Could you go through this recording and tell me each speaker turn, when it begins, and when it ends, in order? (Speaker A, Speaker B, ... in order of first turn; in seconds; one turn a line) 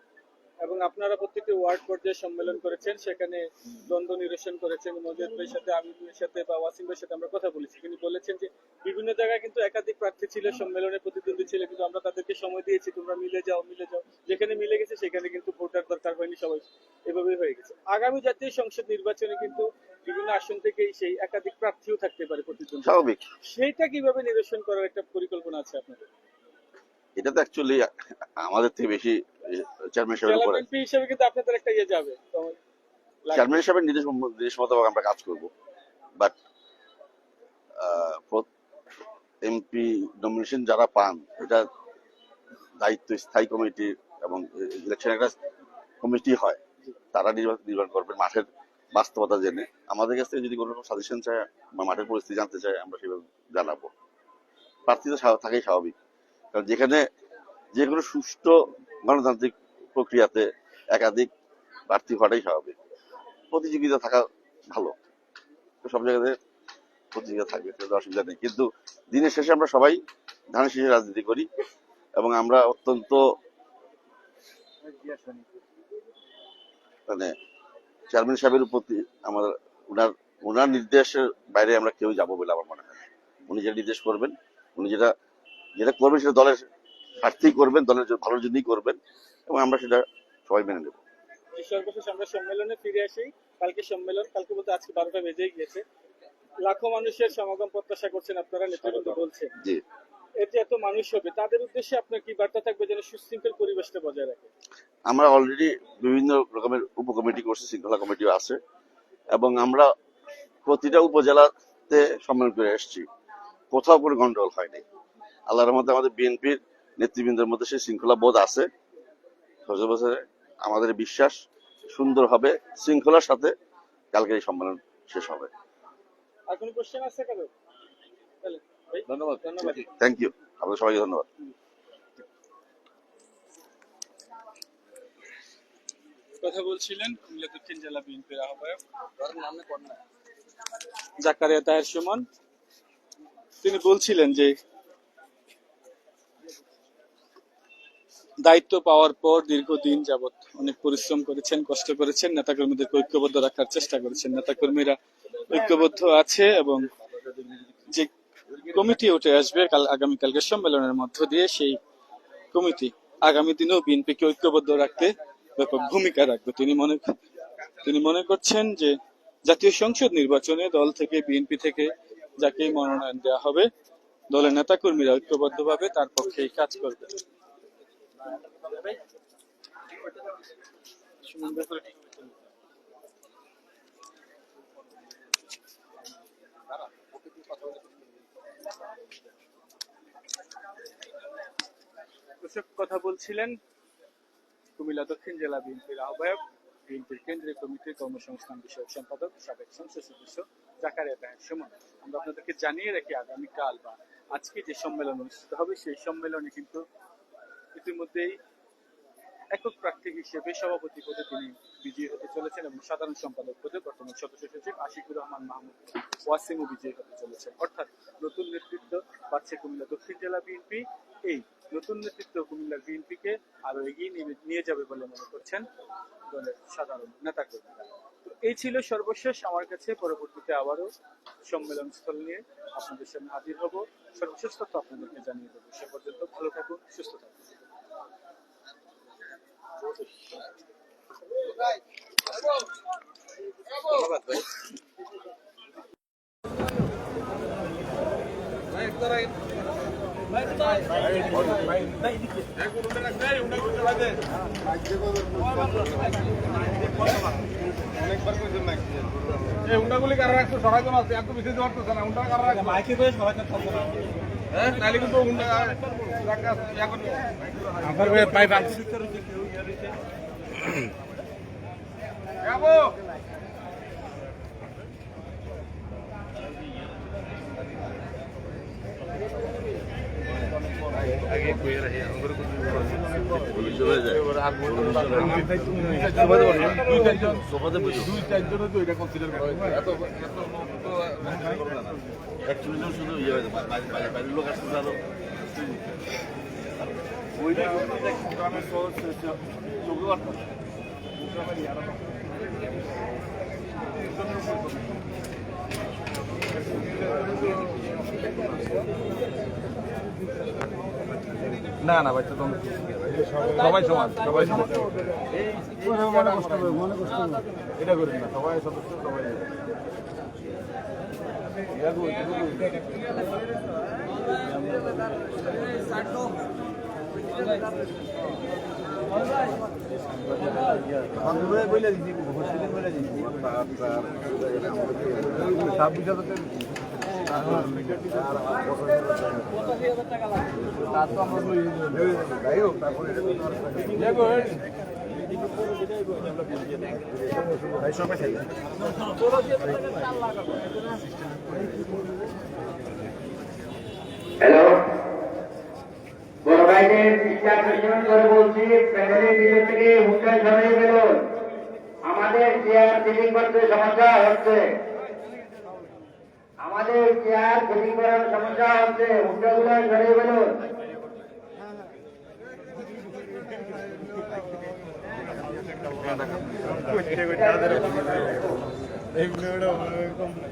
Speaker A: 0.6-26.1
Speaker B: 22.8-23.3
Speaker B: 27.2-30.6
Speaker A: 30.2-32.5
Speaker A: 33.2-33.6
Speaker B: 33.3-35.5
Speaker B: 37.8-38.5
Speaker B: 39.4-41.7
Speaker B: 42.8-45.3
Speaker B: 46.0-46.6
Speaker B: 47.1-53.9
Speaker B: 54.9-55.9
Speaker B: 56.5-57.0
Speaker B: 57.7-61.3
Speaker B: 61.9-62.8
Speaker B: 63.5-64.9
Speaker B: 65.8-66.3
Speaker B: 67.1-70.0
Speaker B: 70.5-71.5
Speaker B: 72.2-73.2
Speaker A: 74.9-75.5
Speaker B: 77.1-77.3
Speaker B: 78.1-85.1
Speaker B: 85.8-86.6
Speaker B: 87.2-91.0
Speaker A: 91.5-95.8
Speaker A: 96.6-99.5
Speaker A: 100.4-104.5
Speaker B: 105.1-108.6
Speaker B: 109.3-109.9
Speaker B: 110.7-113.1
Speaker B: 113.7-114.8
Speaker B: 115.5-118.7
Speaker B: 119.7-121.4
Speaker B: 121.9-123.5
Speaker B: 124.1-125.5
Speaker A: 126.5-127.5
Speaker A: 128.4-129.9
Speaker B: 129.9-131.3
Speaker A: 136.4-138.8
Speaker C: 139.2-140.0
Speaker A: 141.2-142.2
Speaker A: 143.6-144.6
Speaker A: 148.4-156.9
Speaker A: 157.9-161.8
Speaker A: 162.5-167.1
Speaker A: 167.8-173.7
Speaker A: 174.3-177.1
Speaker A: 181.2-182.3
Speaker C: 187.2-188.0
Speaker A: 192.4-193.6
Speaker A: 194.8-206.8
Speaker A: 207.7-208.4
Speaker A: 209.5-225.7
Speaker A: 226.3-230.9
Speaker A: 231.4-237.6
Speaker C: 243.9-244.4
Speaker C: 251.2-251.9
Speaker C: 252.8-254.1
Speaker C: 259.7-262.8
Speaker C: 264.6-268.9
Speaker C: 281.3-283.0
Speaker B: 283.3-288.3
Speaker C: 285.1-287.3
Speaker C: 288.2-291.9
Speaker B: 292.4-295.0
Speaker C: 297.5-299.3
Speaker C: 299.9-300.3
Speaker C: 311.8-312.7
Speaker C: 313.4-314.8
Speaker C: 315.8-317.0
Speaker C: 317.8-319.3
Speaker C: 331.4-331.9
Speaker C: 334.6-334.9
Speaker C: 335.7-336.1
Speaker C: 341.0-341.9
Speaker C: 342.6-343.0
Speaker C: 343.9-344.4
Speaker D: 354.4-354.8
Speaker D: 356.4-361.2
Speaker D: 362.0-364.7
Speaker D: 366.6-370.5
Speaker D: 376.9-378.5